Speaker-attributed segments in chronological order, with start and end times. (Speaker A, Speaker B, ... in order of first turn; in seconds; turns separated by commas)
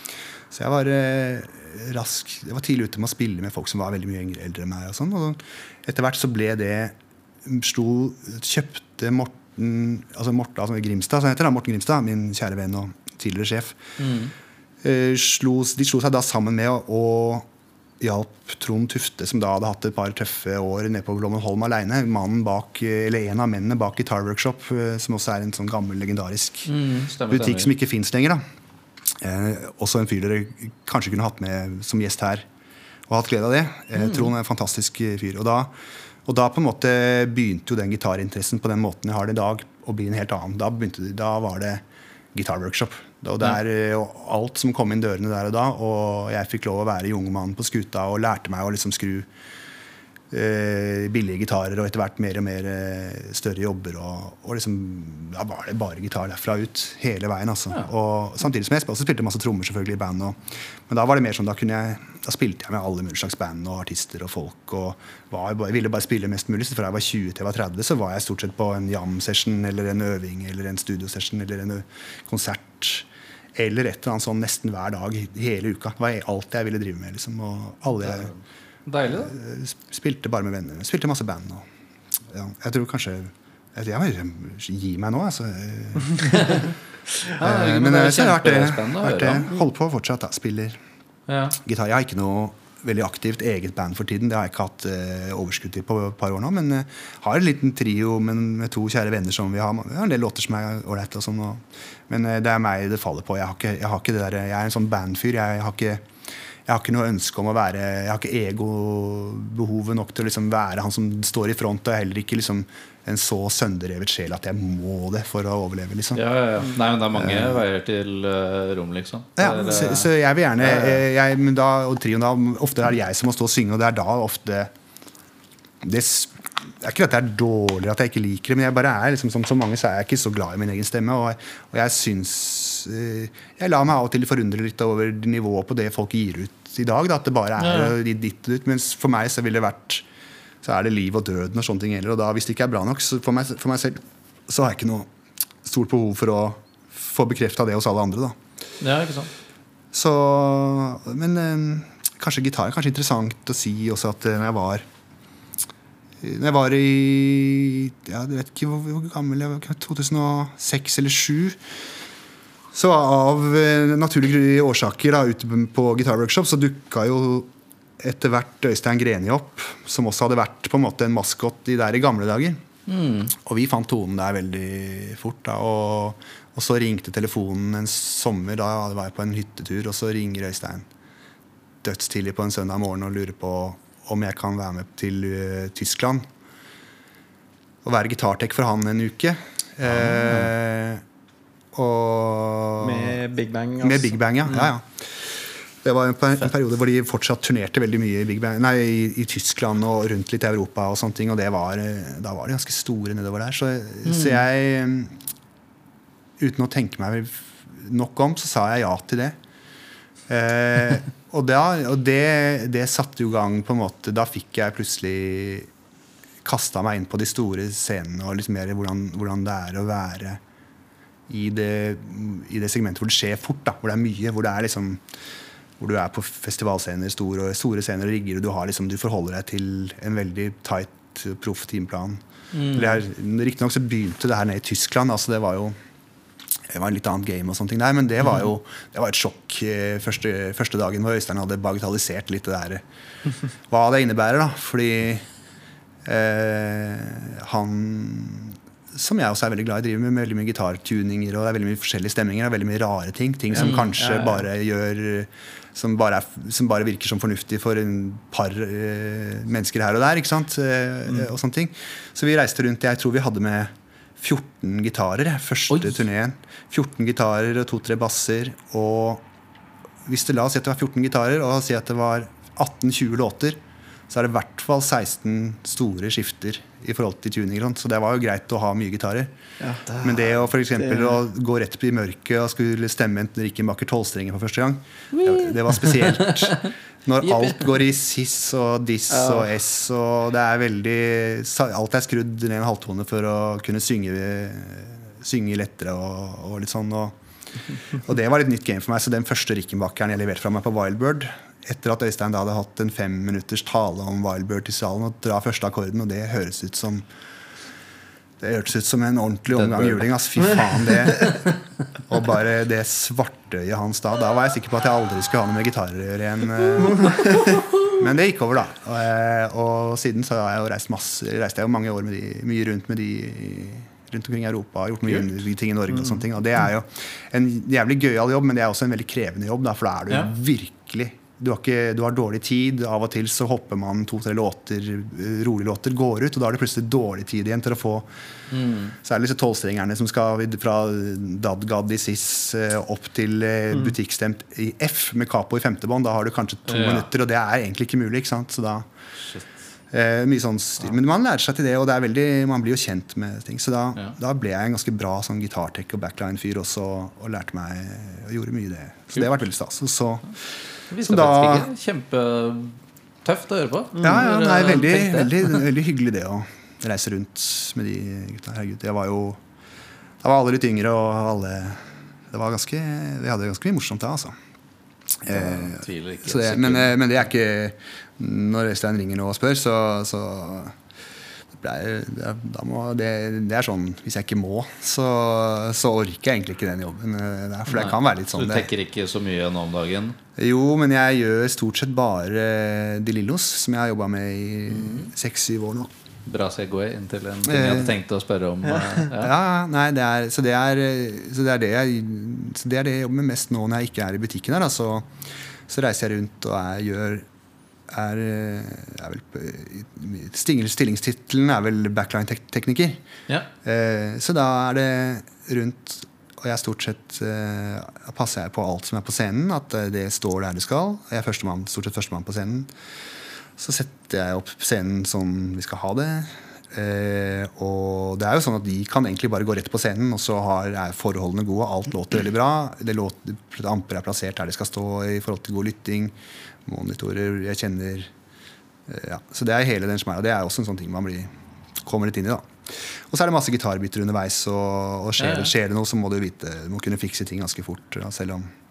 Speaker A: 0.5-13.8, Speaker B: 14.0-14.3, Speaker A: 14.8-17.4, Speaker A: 18.0-26.7, Speaker B: 26.6-27.7, Speaker A: 27.3-28.4, Speaker A: 29.2-32.5, Speaker A: 33.1-35.7, Speaker B: 34.0-34.3, Speaker A: 36.2-49.3, Speaker A: 50.3-78.3, Speaker B: 78.0-78.3, Speaker B: 78.8-79.3, Speaker A: 79.1-81.7, Speaker A: 82.3-86.7, Speaker B: 86.2-86.7, Speaker A: 87.3-90.8, Speaker B: 87.4-89.5, Speaker B: 91.3-91.6, Speaker A: 91.6-106.0, Speaker A: 106.7-116.2, Speaker B: 116.1-121.0, Speaker A: 117.1-117.6, Speaker A: 119.4-124.7, Speaker A: 125.8-140.0, Speaker B: 137.6-137.9, Speaker A: 140.6-145.1, Speaker A: 145.6-148.4, Speaker B: 148.8-149.3, Speaker A: 149.9-154.8, Speaker A: 156.2-161.6, Speaker A: 162.7-172.6, Speaker B: 172.9-173.3, Speaker A: 173.3-180.8, Speaker A: 181.8-186.3, Speaker A: 187.8-191.0, Speaker B: 189.9-190.5, Speaker A: 191.7-193.2, Speaker C: 192.8-194.7, Speaker A: 193.8-205.2, Speaker B: 204.1-204.4, Speaker A: 206.4-209.3, Speaker A: 210.3-215.7, Speaker A: 216.4-220.4, Speaker A: 221.3-225.0, Speaker A: 225.8-235.7, Speaker B: 232.5-233.0, Speaker A: 236.7-242.8, Speaker A: 243.7-245.2, Speaker A: 246.0-269.2, Speaker B: 253.6-254.2, Speaker C: 253.6-254.4, Speaker B: 265.7-266.0, Speaker A: 270.1-273.6, Speaker A: 274.1-279.3, Speaker C: 279.6-281.2, Speaker A: 280.0-297.1, Speaker B: 285.1-286.7, Speaker B: 287.2-287.6, Speaker C: 289.1-289.5, Speaker A: 297.9-307.1, Speaker A: 308.4-311.4, Speaker B: 309.5-310.1, Speaker A: 312.1-338.1, Speaker B: 338.5-338.9, Speaker A: 339.0-348.9, Speaker B: 346.7-347.1, Speaker A: 349.9-360.4, Speaker B: 360.9-365.6, Speaker A: 361.0-361.7, Speaker A: 364.0-369.4, Speaker A: 370.2-374.4, Speaker A: 375.2-380.8, Speaker B: 375.3-377.0, Speaker A: 381.5-388.7, Speaker B: 387.7-390.2, Speaker A: 390.4-395.9, Speaker B: 394.7-395.1, Speaker B: 396.2-399.3, Speaker A: 397.4-397.9, Speaker A: 399.1-405.1, Speaker A: 405.7-407.2, Speaker A: 407.9-413.0, Speaker A: 413.6-422.7, Speaker A: 423.6-436.1, Speaker A: 436.6-438.1, Speaker A: 438.9-441.3, Speaker A: 441.8-448.5, Speaker B: 445.2-445.5